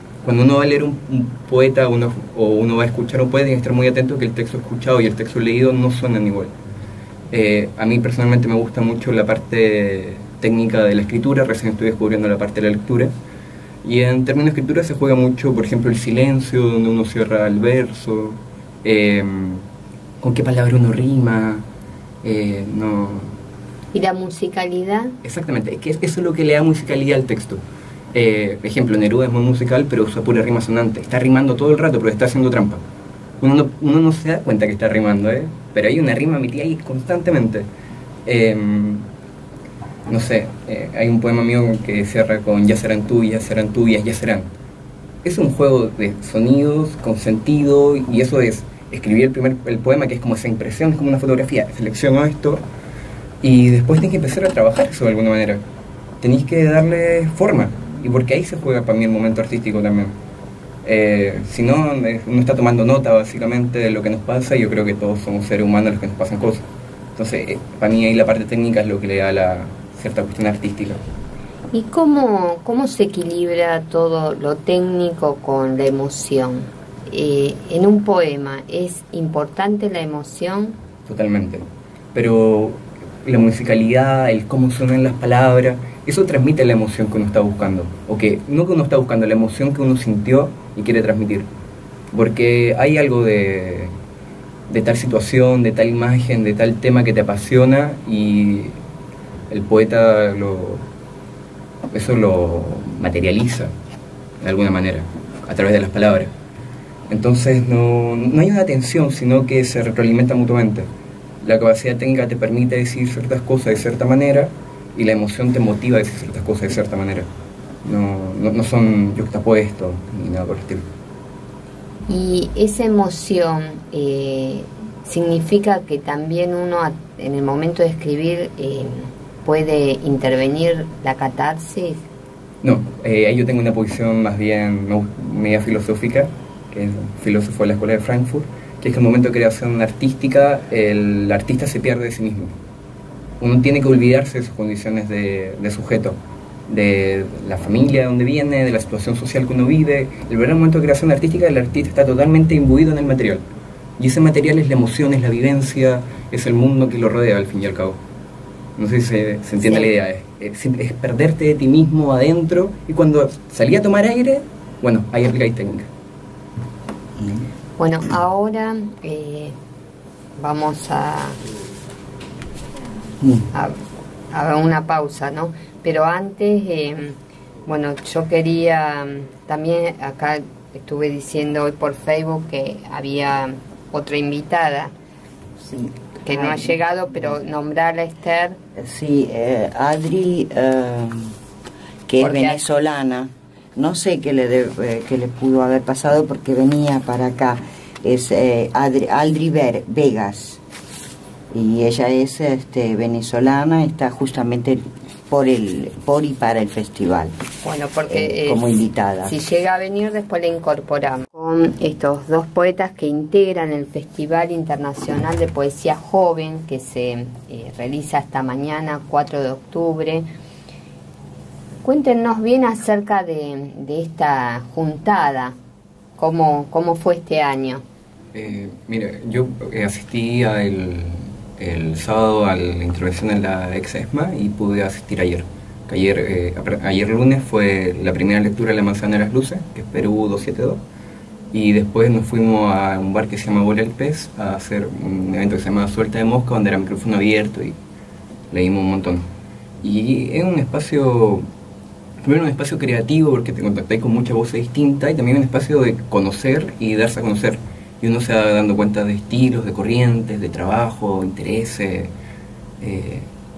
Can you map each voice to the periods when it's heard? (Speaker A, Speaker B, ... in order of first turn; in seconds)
Speaker A: 0.2-6.5, 7.3-13.1, 13.8-19.6, 20.2-21.6, 22.2-23.3, 25.2-27.6, 28.1-32.8, 33.4-37.7, 38.3-39.1, 40.1-44.5, 45.2-52.6, 53.4-55.6, 56.2-60.1, 60.8-66.7, 67.2-71.0, 81.1-91.5, 92.1-93.9, 94.7-98.8, 99.5-100.8, 101.9-103.7, 104.4-106.3, 107.1-110.9, 111.4-117.3, 117.8-120.8, 132.6-142.5, 143.4-146.2, 146.7-153.4, 154.0-158.0, 158.8-165.9, 228.3-240.8, 241.5-247.8, 248.5-249.2, 249.8-251.5, 252.2-262.1, 262.8-263.3
Speaker B: 23.9-25.1, 71.7-80.8, 122.1-132.0, 159.6-159.9, 167.8-169.6, 170.4-171.4, 174.3-184.9, 186.3-188.6, 192.2-192.6, 207.6-220.3, 221.8-225.6, 226.2-227.8
Speaker C: 185.6-186.7, 188.8-191.3, 192.1-200.6, 201.5-207.3, 208.1-209.3